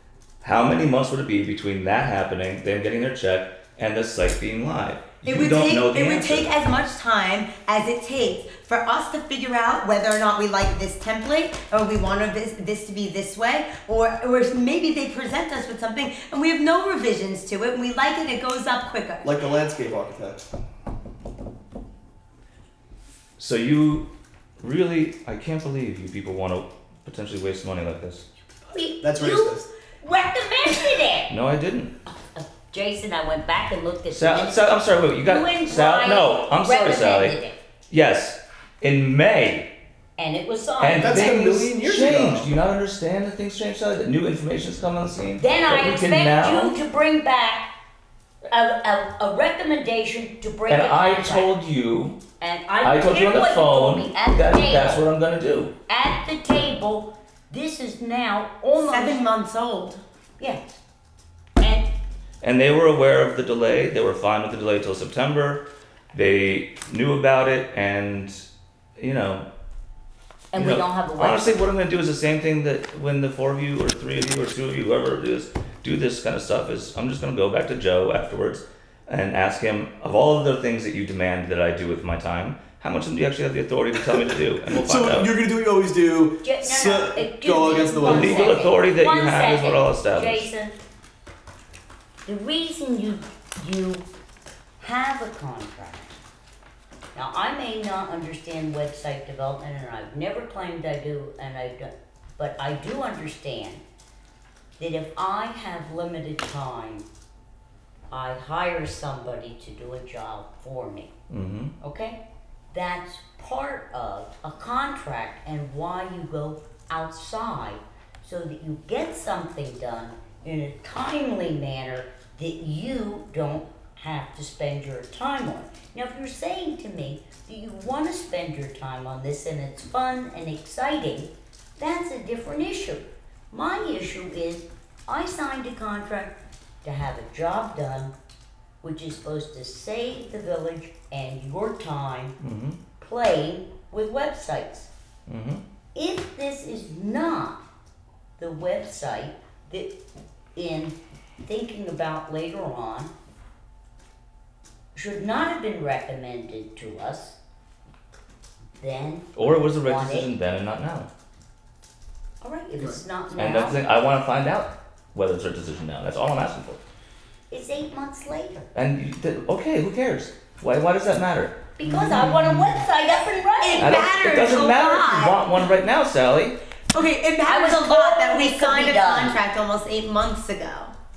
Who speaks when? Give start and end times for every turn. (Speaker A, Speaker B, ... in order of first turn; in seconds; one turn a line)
Speaker A: 0.4-6.5
Speaker B: 5.2-19.3
Speaker C: 19.2-20.4
Speaker A: 23.4-28.2
Speaker D: 28.7-31.3
Speaker C: 29.0-29.7
Speaker A: 31.3-31.9
Speaker D: 32.1-37.6
Speaker A: 34.1-37.4
Speaker A: 37.9-39.7
Speaker D: 40.2-41.4
Speaker A: 40.8-46.8
Speaker C: 41.0-42.5
Speaker D: 45.4-47.7
Speaker D: 48.5-51.5
Speaker A: 50.7-52.2
Speaker D: 52.4-55.1
Speaker A: 52.8-55.7
Speaker D: 55.9-59.3
Speaker B: 58.7-60.0
Speaker D: 60.4-60.8
Speaker D: 61.6-61.9
Speaker A: 62.4-68.5
Speaker A: 69.0-69.5
Speaker D: 70.5-71.6
Speaker A: 70.5-85.3
Speaker C: 84.1-88.6
Speaker D: 86.4-90.8
Speaker A: 88.0-90.5
Speaker D: 92.2-94.0
Speaker D: 94.8-96.1
Speaker D: 97.1-103.8
Speaker D: 104.8-107.0
Speaker D: 108.1-111.1
Speaker A: 111.3-111.7
Speaker D: 111.8-112.2
Speaker D: 112.7-138.1
Speaker D: 138.8-142.3
Speaker A: 142.4-142.8
Speaker D: 143.0-144.9
Speaker A: 145.3-145.6
Speaker D: 145.9-147.6
Speaker D: 148.4-149.9
Speaker D: 150.5-153.1
Speaker D: 154.9-157.4
Speaker D: 158.8-160.3
Speaker A: 159.4-161.1
Speaker D: 162.4-163.8
Speaker A: 162.8-166.8
Speaker D: 167.5-168.7
Speaker A: 168.7-171.6
Speaker D: 171.8-174.0
Speaker B: 173.1-175.7
Speaker A: 173.8-176.6
Speaker B: 176.9-180.9
Speaker D: 177.4-179.4